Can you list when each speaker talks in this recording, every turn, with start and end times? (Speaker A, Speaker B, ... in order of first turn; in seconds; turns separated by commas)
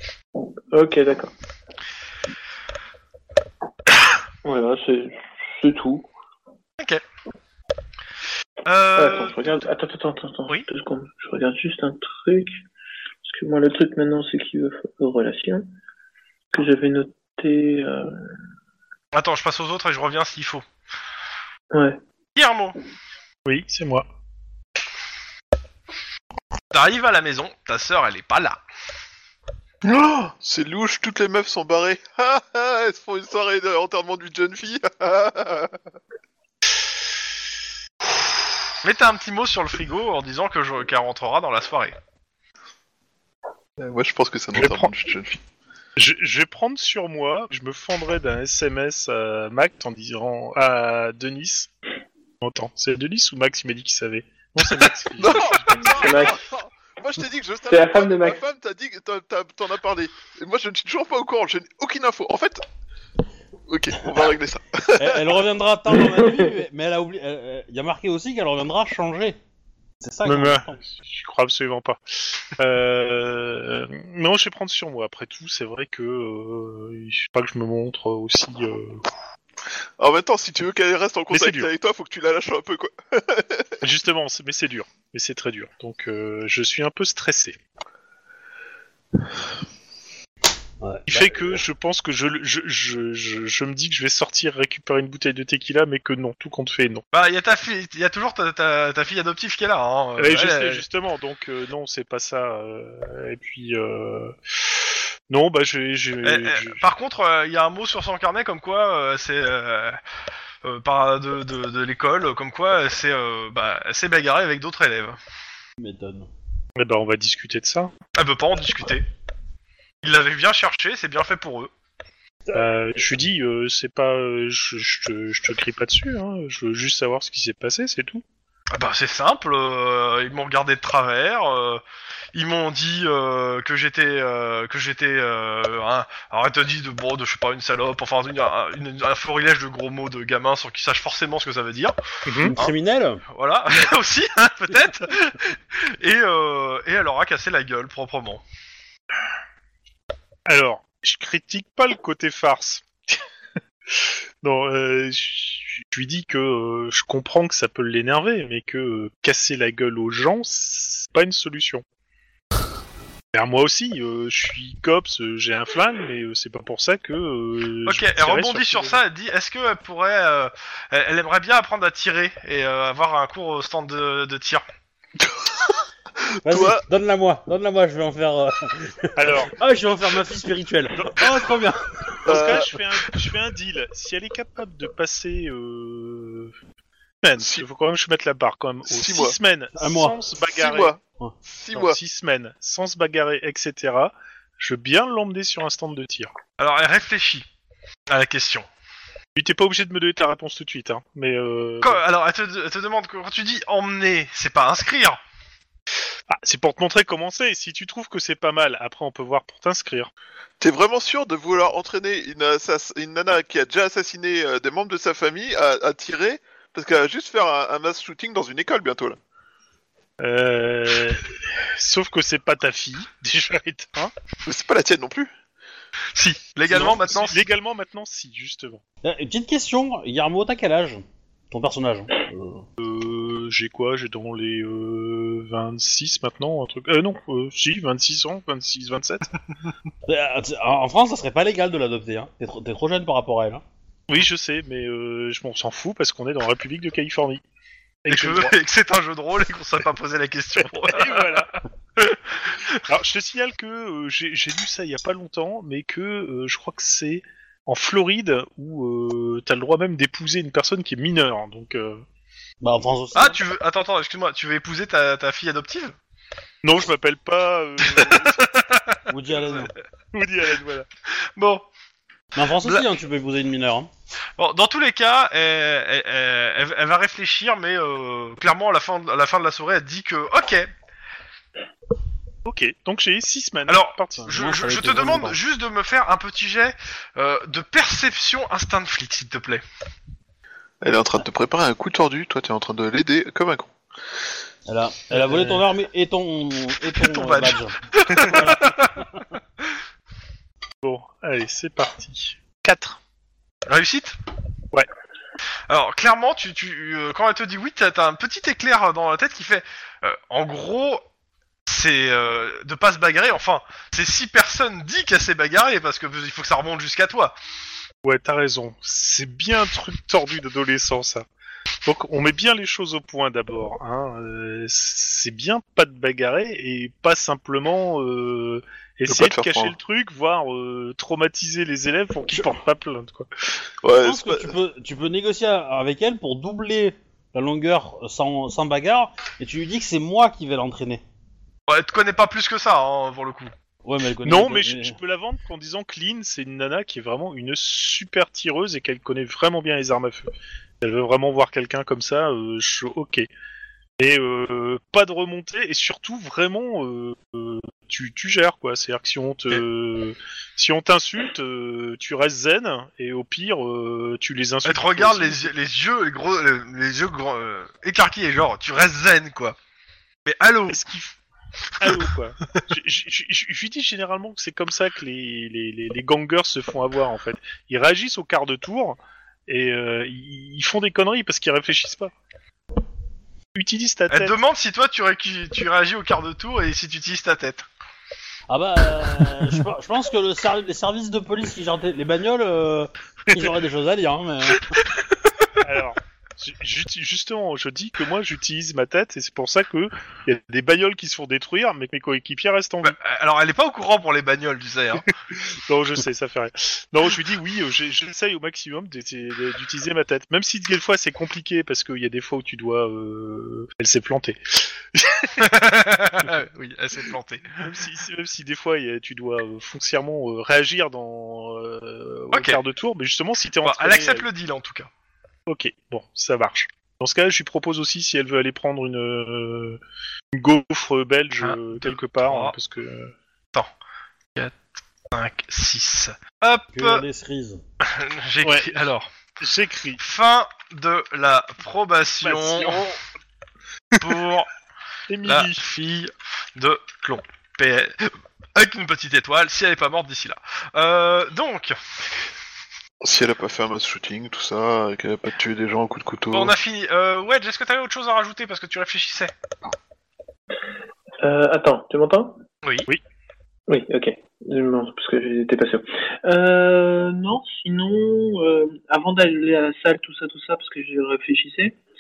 Speaker A: 0.7-1.3, Speaker A: 4.5-6.1, Speaker B: 8.7-9.6, Speaker A: 9.0-12.5, Speaker A: 13.2-15.7, Speaker A: 16.5-18.1, Speaker B: 19.1-20.6, Speaker A: 21.7-22.0, Speaker B: 22.4-22.8, Speaker C: 23.5-24.1, Speaker B: 26.7-28.6, Speaker D: 29.8-35.8, Speaker B: 38.8-42.0, Speaker D: 43.8-45.4, Speaker C: 44.6-44.9, Speaker C: 46.0-51.7, Speaker C: 52.4-56.1, Speaker D: 55.2-62.6, Speaker A: 55.9-56.4, Speaker A: 57.7-58.4, Speaker D: 63.7-65.4, Speaker E: 65.0-69.4, Speaker E: 70.0-70.8, Speaker C: 70.2-72.0, Speaker C: 72.6-79.1, Speaker D: 80.0-83.7, Speaker C: 81.3-81.7, Speaker C: 83.8-87.6, Speaker E: 90.8-91.6, Speaker C: 91.1-97.0, Speaker B: 97.1-100.8, Speaker C: 100.2-106.9, Speaker B: 106.2-110.0, Speaker B: 110.6-115.2, Speaker E: 115.8-116.3, Speaker C: 116.8-117.9, Speaker B: 118.2-119.0, Speaker B: 120.0-121.7, Speaker C: 122.5-128.2, Speaker B: 128.7-131.8, Speaker B: 132.3-142.7, Speaker C: 142.3-142.6, Speaker E: 142.5-143.2, Speaker B: 143.3-148.4, Speaker C: 150.5-153.2, Speaker C: 153.9-161.8, Speaker C: 163.3-169.0, Speaker B: 167.9-174.6, Speaker D: 176.4-176.8, Speaker E: 176.4-182.3, Speaker C: 179.2-179.5, Speaker C: 182.2-186.5, Speaker D: 182.3-182.7, Speaker C: 187.2-190.9, Speaker D: 187.4-187.7, Speaker D: 188.8-189.4, Speaker E: 189.8-190.2, Speaker D: 190.4-191.0, Speaker D: 191.5-192.0, Speaker C: 191.7-196.3, Speaker B: 196.6-197.5, Speaker B: 198.1-198.7, Speaker C: 199.4-202.0, Speaker B: 201.8-205.2, Speaker C: 206.3-210.1, Speaker D: 210.6-219.2, Speaker C: 220.2-224.1, Speaker D: 224.5-225.3, Speaker B: 226.2-227.4, Speaker C: 226.7-228.8, Speaker E: 229.0-232.7, Speaker C: 232.8-239.3, Speaker E: 240.1-243.6, Speaker C: 244.1-247.4, Speaker C: 248.1-248.6, Speaker B: 248.1-252.8, Speaker C: 250.8-251.5, Speaker C: 252.9-262.0, Speaker E: 262.6-263.4, Speaker B: 263.1-265.9, Speaker C: 266.6-268.5, Speaker B: 267.8-269.7, Speaker E: 269.1-269.7, Speaker C: 270.1-270.9, Speaker B: 271.4-271.6, Speaker E: 272.4-273.9, Speaker B: 272.5-272.9, Speaker B: 274.4-280.7, Speaker C: 282.4-284.3, Speaker B: 283.7-289.6, Speaker E: 284.2-285.4, Speaker D: 290.8-293.7, Speaker E: 294.7-298.8, Speaker C: 295.1-295.7, Speaker B: 296.9-299.0, Speaker C: 300.8-303.0, Speaker B: 303.7-304.2, Speaker B: 305.7-311.0, Speaker B: 311.7-317.4, Speaker C: 318.0-321.3, Speaker C: 321.9-333.3, Speaker D: 329.1-329.8, Speaker E: 332.3-332.6, Speaker D: 333.8-334.6, Speaker E: 333.9-341.0, Speaker B: 341.7-343.5, Speaker E: 343.8-345.0, Speaker C: 344.2-350.3, Speaker C: 350.8-353.3, Speaker C: 354.0-365.5, Speaker B: 364.6-369.6, Speaker B: 370.3-370.9, Speaker C: 370.7-371.1, Speaker C: 371.8-382.1, Speaker C: 383.6-384.4, Speaker B: 384.1-387.7, Speaker E: 388.5-394.7, Speaker C: 395.6-403.0, Speaker B: 402.8-405.1, Speaker C: 405.7-415.4, Speaker B: 415.4-417.7, Speaker C: 417.6-424.3, Speaker B: 423.6-424.9, Speaker C: 425.5-429.8, Speaker C: 430.3-433.1, Speaker B: 431.4-432.6, Speaker B: 435.1-437.1, Speaker E: 436.7-437.6, Speaker B: 437.8-439.1, Speaker C: 438.4-438.9, Speaker C: 439.4-440.0, Speaker B: 440.0-442.9, Speaker C: 442.2-443.0, Speaker B: 444.0-444.5, Speaker C: 445.1-445.7, Speaker B: 445.2-451.8, Speaker D: 453.0-456.5, Speaker B: 456.3-459.3, Speaker A: 461.2-462.4, Speaker B: 462.6-462.9, Speaker A: 463.7-471.8